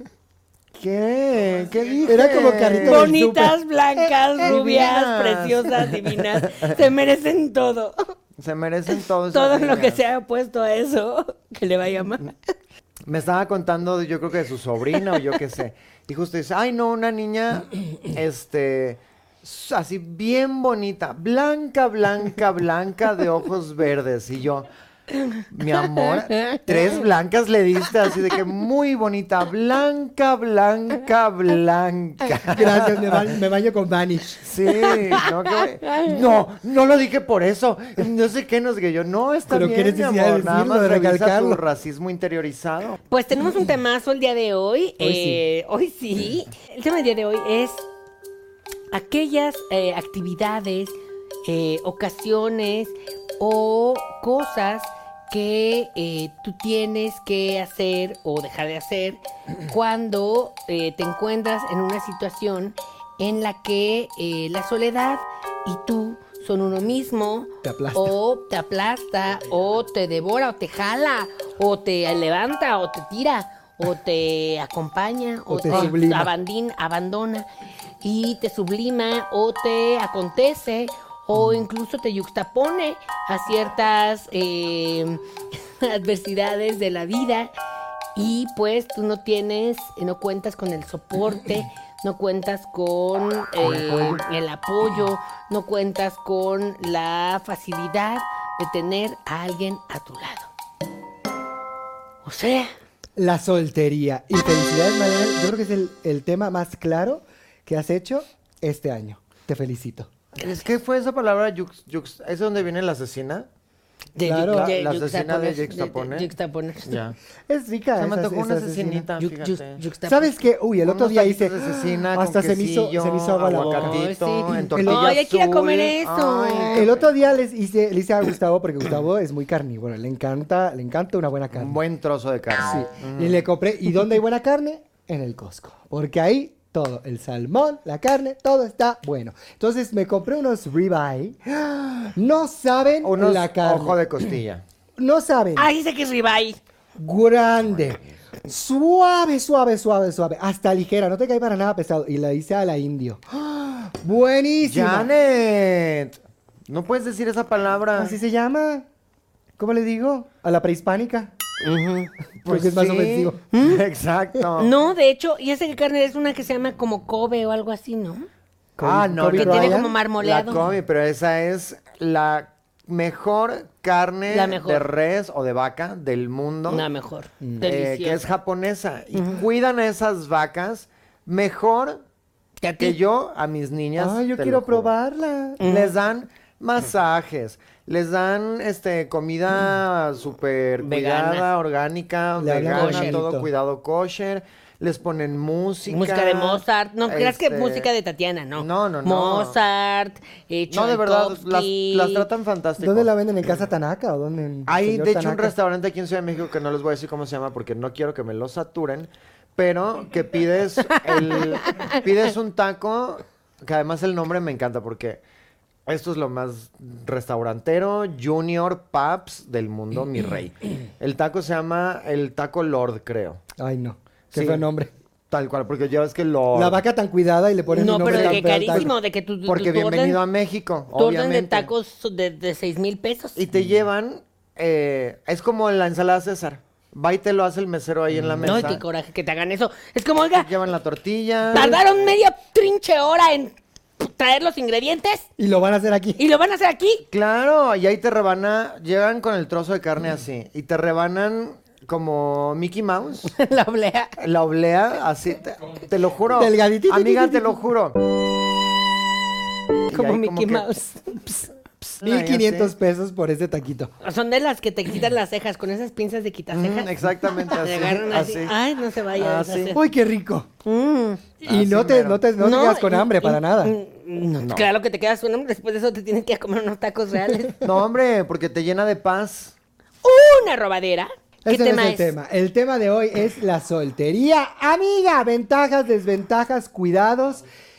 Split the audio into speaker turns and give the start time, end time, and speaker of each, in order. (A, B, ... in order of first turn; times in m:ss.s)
0:00.8-0:03.2 A
0:02.0-0:03.6 B
0:02.8-0:08.1 C
0:04.4-0:06.8 A
0:08.4-0:10.0 A
0:08.9-0:12.3 C
0:13.0-0:24.7 A
0:25.5-0:33.3 A
0:26.0-0:27.0 C
0:32.5-0:34.4 B
0:34.4-0:43.0 A
0:34.8-0:35.3 C
0:35.8-0:36.2 C
0:39.5-0:41.6 B
0:43.1-0:47.8 C
0:45.0-0:45.4 B
0:48.9-1:17.4 C
1:07.6-1:08.1 B
1:15.5-1:16.3 B
1:18.0-1:25.2 C
1:25.8-1:27.5 C
1:28.1-1:40.5 C
1:33.6-1:34.2 B
1:42.2-1:42.7 C
1:43.2-1:50.1 B
1:50.4-1:53.5 A
1:54.2-1:57.0 C
1:54.2-1:54.7 B
1:54.4-1:56.3 A
1:56.8-1:57.2 A
1:57.5-1:59.1 B
1:58.0-1:59.8 A
1:59.2-2:00.4 C
2:00.0-2:04.0 B
2:00.8-2:07.1 A
2:03.5-2:06.9 C
2:04.7-2:05.1 B
2:06.6-2:11.8 B
2:11.5-2:13.4 A
2:12.6-2:24.0 B
2:23.0-2:24.6 A
2:25.0-2:25.7 B
2:25.6-2:26.6 C
2:27.0-2:35.1 B
2:27.7-2:28.0 A
2:34.6-2:36.2 A
2:36.7-2:38.2 A
2:38.0-2:38.8 B
2:39.6-2:41.3 B
2:41.6-2:42.1 C
2:42.4-2:44.7 A
2:42.4-2:43.4 B
2:43.5-2:43.8 C
2:44.6-2:48.3 C
2:48.8-2:49.9 B
2:48.8-2:56.8 A
2:49.3-2:50.6 C
2:54.3-2:54.8 C
2:56.7-2:58.2 C
2:57.6-3:02.0 A
3:02.6-3:03.0 C
3:02.8-3:04.9 A
3:04.0-3:05.6 B
3:05.6-3:05.9 C
3:05.6-3:17.9 A
3:10.8-3:11.4 C
3:12.4-3:13.5 B
3:12.7-3:13.2 C
3:15.9-3:22.2 C
3:18.6-3:19.6 A
3:20.7-3:23.6 A
3:22.8-3:25.5 B
3:24.7-3:35.2 A
3:30.9-3:32.0 C
3:35.8-3:43.4 A
3:43.6-3:44.9 B
3:44.3-3:44.6 A
3:45.3-3:46.8 A
3:46.5-3:48.9 B
3:47.7-3:50.2 C
3:48.0-3:48.9 A
3:49.4-3:51.7 A
3:50.9-3:53.4 C
3:53.4-3:58.8 A
3:58.3-3:58.6 B
3:58.4-4:00.5 C
4:00.3-4:01.8 A
4:01.5-4:05.3 C
4:05.4-4:06.2 B
4:06.2-4:07.0 C
4:07.1-4:13.3 A
4:13.3-4:14.1 C
4:14.2-4:18.0 A
4:16.3-4:17.6 B
4:19.9-4:20.7 A
4:19.9-4:21.5 C
4:21.8-4:22.7 A
4:22.0-4:23.9 B
4:24.0-4:26.9 C
4:26.5-4:28.5 A
4:27.5-4:29.8 C
4:29.1-4:29.7 A
4:29.7-4:30.5 B
4:30.6-4:31.3 C
4:31.4-4:32.2 A
4:31.4-4:33.7 B
4:32.4-4:37.6 C
4:34.4-4:34.7 A
4:37.6-4:39.5 A
4:40.0-4:42.1 C
4:41.4-4:47.4 B